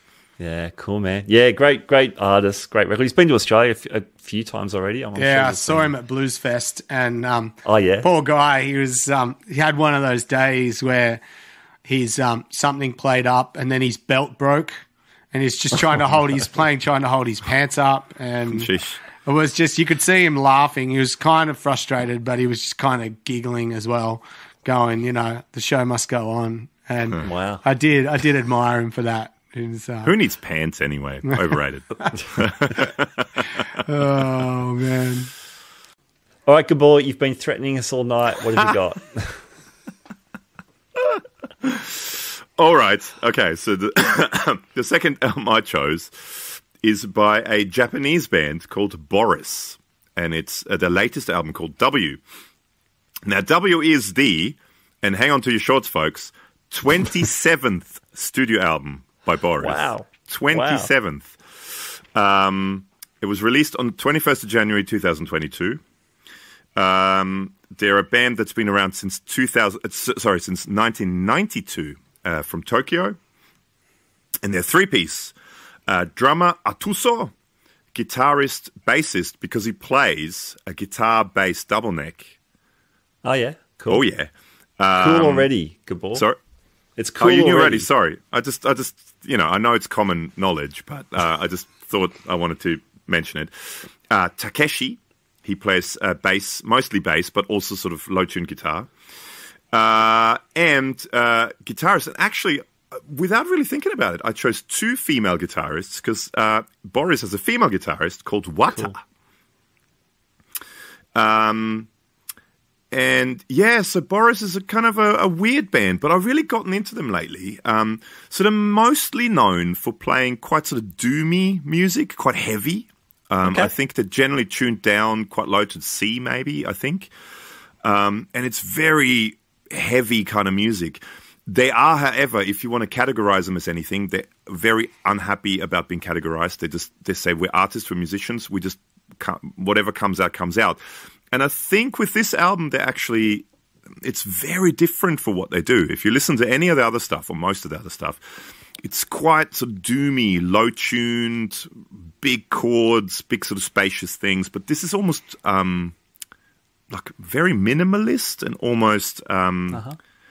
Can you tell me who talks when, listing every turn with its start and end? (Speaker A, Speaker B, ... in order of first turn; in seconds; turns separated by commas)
Speaker A: 0.4-5.9, Speaker B: 5.2-11.2, Speaker A: 7.7-8.1, Speaker B: 11.8-18.7, Speaker C: 18.5-19.0, Speaker B: 19.2-30.1, Speaker A: 27.2-27.6, Speaker C: 30.0-33.6, Speaker B: 33.9-35.3, Speaker A: 36.5-39.4, Speaker C: 41.0-52.2, Speaker C: 53.2-65.8, Speaker A: 59.6-60.9, Speaker C: 66.8-73.2, Speaker C: 74.4-75.3, Speaker C: 75.9-77.3, Speaker C: 77.9-82.3, Speaker A: 83.2-84.0, Speaker C: 83.9-85.5, Speaker A: 84.9-86.3, Speaker A: 87.0-87.9, Speaker C: 87.2-98.9, Speaker C: 99.7-109.0, Speaker A: 108.7-109.0, Speaker C: 111.2-111.9, Speaker C: 112.9-127.1, Speaker A: 123.4-123.7, Speaker C: 127.8-140.8, Speaker C: 141.3-143.5, Speaker C: 144.0-148.2, Speaker C: 148.8-155.9, Speaker C: 156.9-159.8, Speaker A: 159.7-160.0